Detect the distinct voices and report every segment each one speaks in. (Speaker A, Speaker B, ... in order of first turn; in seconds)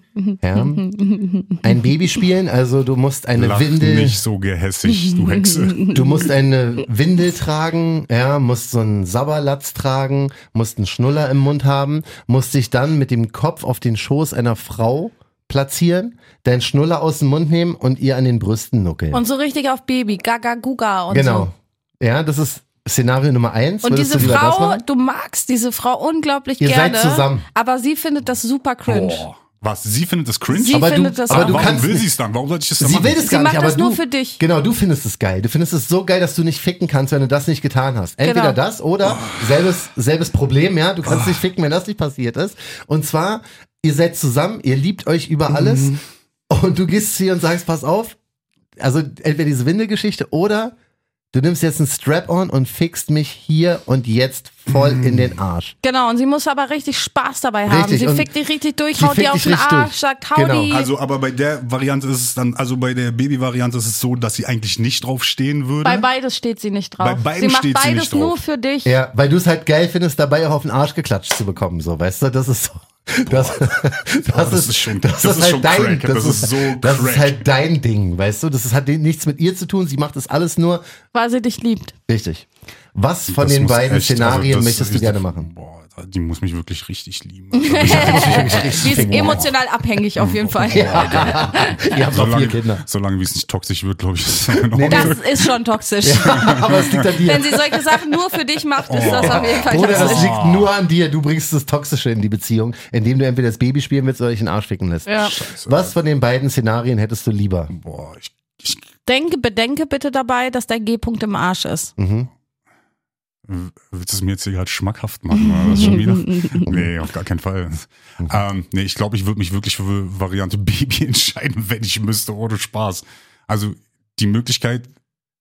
Speaker A: 0.2-1.7, 4.9-6.0, 19.1-21.5, 23.8-29.2, 30.5-31.8, 33.2-34.4, 38.2-38.6, 55.8-60.9, 65.8-68.9, 81.1-81.9, 87.6-91.7, 94.9-96.5, 97.2-100.4, 105.1-105.3, 109.1-111.9, 115.4-116.7
Speaker B: 0.4-0.9, 1.6-4.2, 5.9-19.2, 21.1-24.8, 26.6-27.5, 30.7-32.1, 32.8-46.0, 46.5-48.2, 48.8-50.7, 51.3-55.8, 57.7-58.3, 59.0-60.7, 68.8-80.8, 82.1-85.5, 87.8-89.5, 90.7-92.8, 94.6-95.2, 96.0-97.6, 98.9-107.7, 112.0-112.3
Speaker C: 3.4-6.1, 28.9-33.3, 39.0-39.7, 41.0-41.4, 45.5-46.0, 54.7-55.3, 60.7-66.1, 67.0-68.4, 73.3-77.4, 83.3-89.5, 90.2-95.5, 96.3-97.1, 98.9-100.7, 105.2-105.9, 107.7-108.8, 113.5-124.9